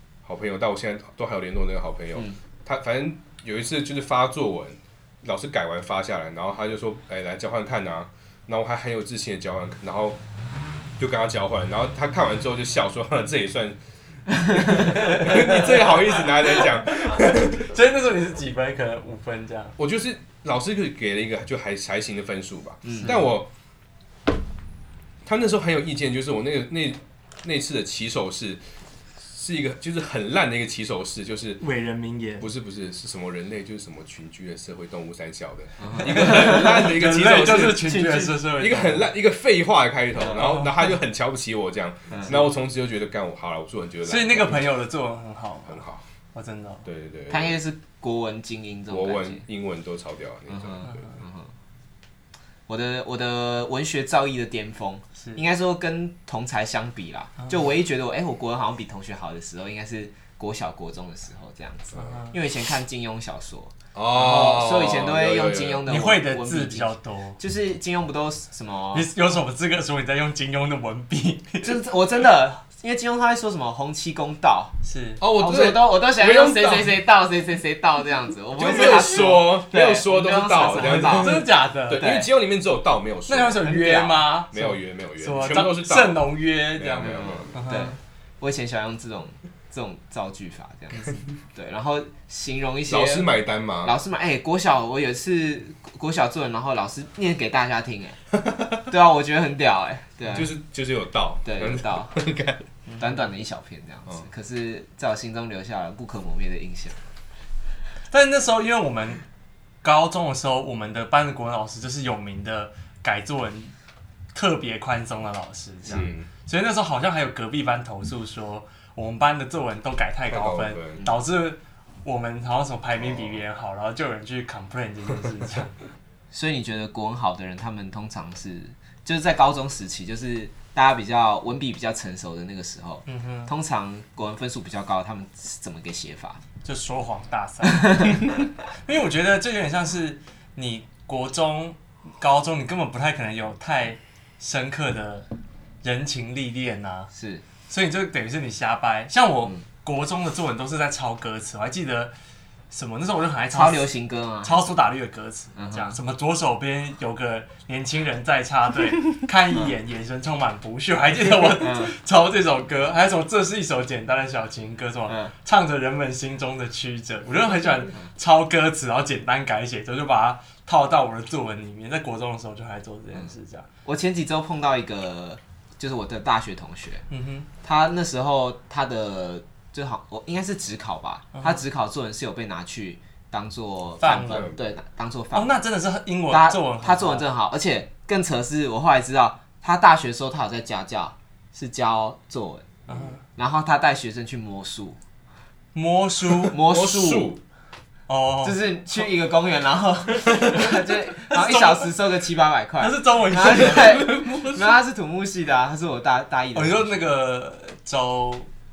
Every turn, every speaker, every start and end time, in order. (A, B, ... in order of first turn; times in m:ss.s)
0:00.2-0:10.2 A
0:11.0-0:13.8 A
0:14.3-0:17.7 A
0:14.6-0:19.8 B
0:19.8-0:23.5 A
0:22.8-0:23.2 C
0:25.2-0:28.6 A
0:29.2-0:31.6 A
0:31.6-0:32.5 B
0:32.4-0:44.6 A
0:35.8-0:36.6 C
0:36.0-0:39.1 B
0:40.4-0:40.7 B
0:42.1-0:42.4 C
0:44.0-0:45.8 B
0:45.7-0:46.0 A
0:46.3-0:46.8 B
0:46.8-0:47.6 A
0:47.3-0:49.4 C
0:48.9-0:51.0 A
0:50.5-0:51.5 C
0:52.7-1:09.1 C
1:01.9-1:02.2 A
1:01.9-1:02.3 B
1:03.9-1:05.9 A
1:05.8-1:07.4 B
1:08.9-1:11.7 B
1:11.6-1:14.8 C
1:14.8-1:15.2 B
1:15.2-1:17.0 A
1:15.4-1:22.3 C
1:18.6-1:23.6 A
1:20.8-1:22.1 B
1:23.3-1:27.9 B
1:23.6-1:24.2 C
1:24.5-1:27.5 A
1:27.1-1:33.3 C
1:32.8-1:34.0 A
1:33.8-1:38.2 C
1:38.8-1:40.5 C
1:40.3-1:42.6 A
1:41.4-1:42.1 C
1:42.8-1:43.1 B
1:43.0-1:47.0 C
1:48.1-1:49.2 B
1:49.8-1:53.7 B
1:54.3-2:05.8 B
1:55.9-1:56.3 A
2:00.3-2:01.0 A
2:03.0-2:03.4 A
2:06.3-2:16.4 C
2:13.1-2:13.5 B
2:16.6-2:25.3 B
2:17.7-2:18.3 C
2:25.8-2:27.1 B
2:27.1-2:27.4 C
2:27.7-2:32.1 B
2:32.7-2:33.9 B
2:33.5-2:34.7 C
2:34.4-2:53.6 B
2:35.5-2:36.0 C
2:41.4-2:41.9 C
2:45.1-2:45.3 C
2:53.8-2:57.0 C
2:57.1-2:57.5 B
2:57.6-3:05.6 C
3:04.0-3:04.5 B
3:05.3-3:07.2 B
3:06.3-3:12.8 C
3:12.9-3:13.2 B
3:13.3-3:15.0 C
3:15.7-3:16.6 B
3:16.5-3:17.3 C
3:16.5-3:17.4 A
3:18.1-3:18.6 B
3:18.4-3:27.0 C
3:21.3-3:21.9 B
3:22.8-3:24.2 B
3:23.5-3:24.7 A
3:26.5-3:28.5 B